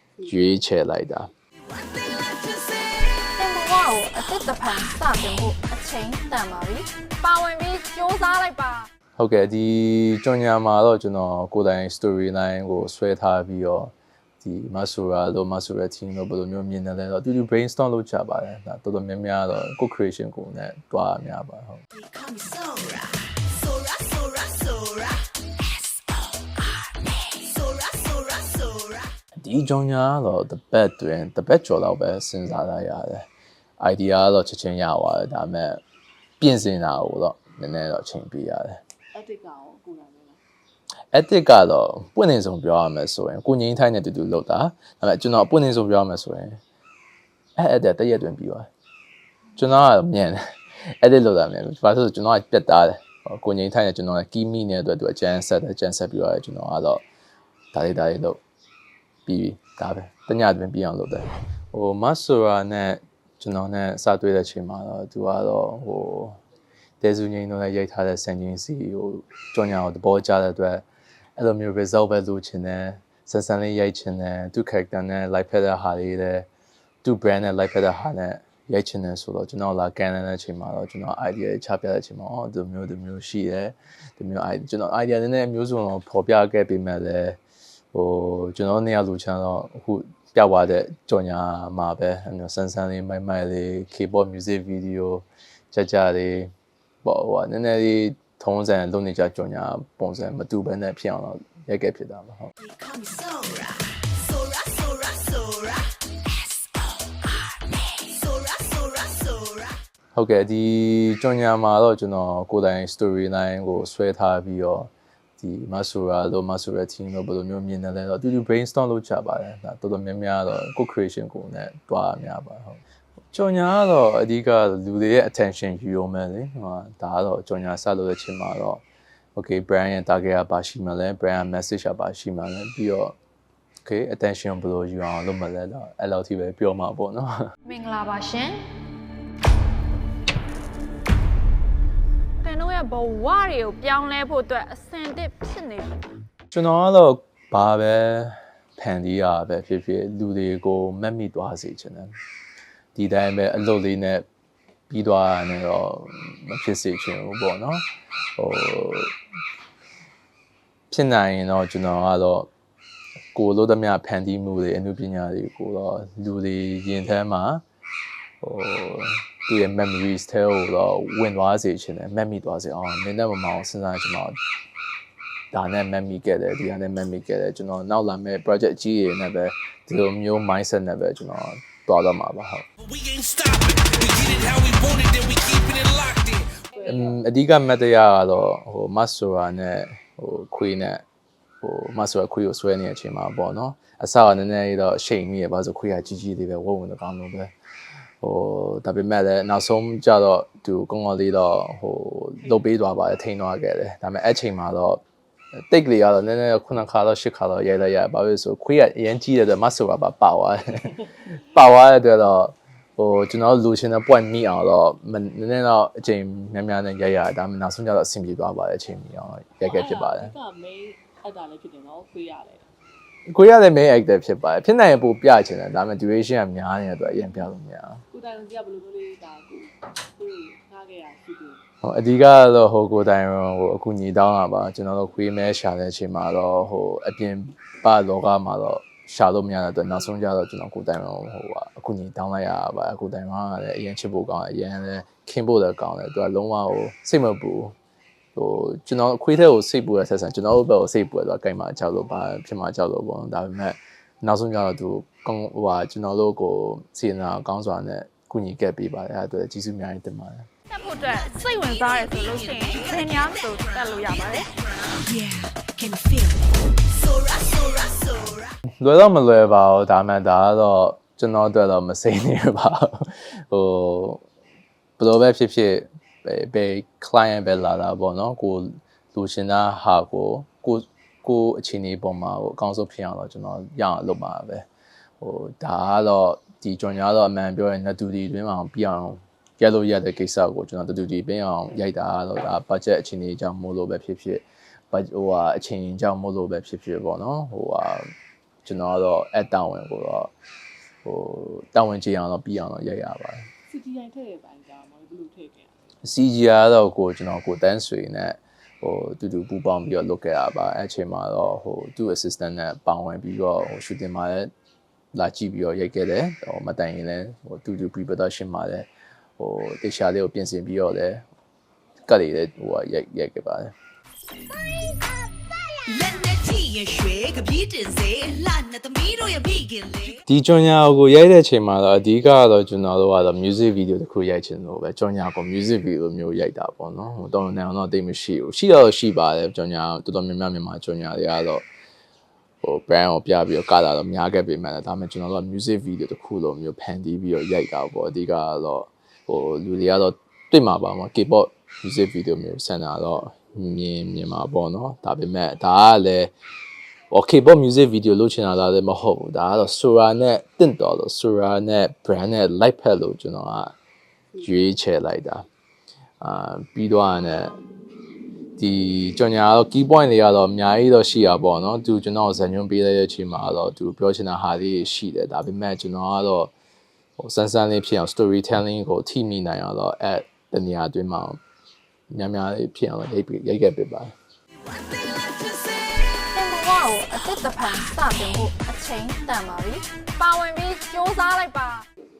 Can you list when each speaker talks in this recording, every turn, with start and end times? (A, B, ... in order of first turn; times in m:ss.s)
0:00.2-0:01.3 A
0:01.8-0:02.9 B
0:03.4-0:08.9 C
0:09.2-0:21.8 A
0:21.9-0:29.1 B
0:29.4-0:33.3 A
0:33.8-0:35.8 A
0:36.4-0:38.8 A
0:39.2-0:40.4 D
0:41.1-0:46.6 A
0:47.6-0:48.7 A
0:49.6-0:50.4 A
0:51.0-0:57.0 A
0:57.7-0:58.4 A
0:59.2-1:06.4 A
1:07.0-1:10.8 A
1:11.4-1:16.5 A
1:17.0-1:27.4 A
1:27.9-1:36.5 A
1:37.0-1:42.5 A
1:42.6-1:49.8 B
1:50.1-2:08.8 A
2:09.3-2:13.2 A
2:13.8-2:17.5 A
2:17.6-2:18.6 C
2:22.4-2:26.0 C
2:26.5-2:32.1 A
2:32.9-2:34.2 A
2:34.9-2:39.1 A
2:40.9-2:42.5 A
2:43.3-2:47.6 A
2:48.4-2:54.4 A
2:55.5-3:02.6 A
3:02.8-3:06.6 E
3:06.7-3:07.1 B
3:06.8-3:11.0 A
3:11.6-3:17.5 A
3:18.2-3:25.0 A
3:25.7-3:40.3 A
3:39.6-3:40.9 E
3:40.5-3:42.7 D
3:43.3-3:48.0 A
3:48.1-3:51.6 D
3:51.8-4:07.8 A
4:08.3-4:20.5 A
4:20.7-4:24.5 C
4:21.0-4:28.5 B
4:28.8-4:34.2 A
4:35.0-4:44.6 A
4:45.2-4:58.1 A
4:58.6-5:00.3 A
5:01.0-5:03.5 A
5:03.7-5:05.7 D
5:06.0-5:14.5 A
5:15.1-5:21.2 A
5:22.1-5:23.7 A
5:25.8-5:30.2 B
5:30.2-5:41.7 A
5:42.6-5:56.3 A
5:57.1-6:03.8 A
6:04.4-6:05.4 A
6:06.2-6:07.6 A
6:08.6-6:16.5 A
6:17.2-6:21.4 A
6:22.1-6:24.1 A
6:24.9-6:26.0 B
6:26.3-6:31.8 C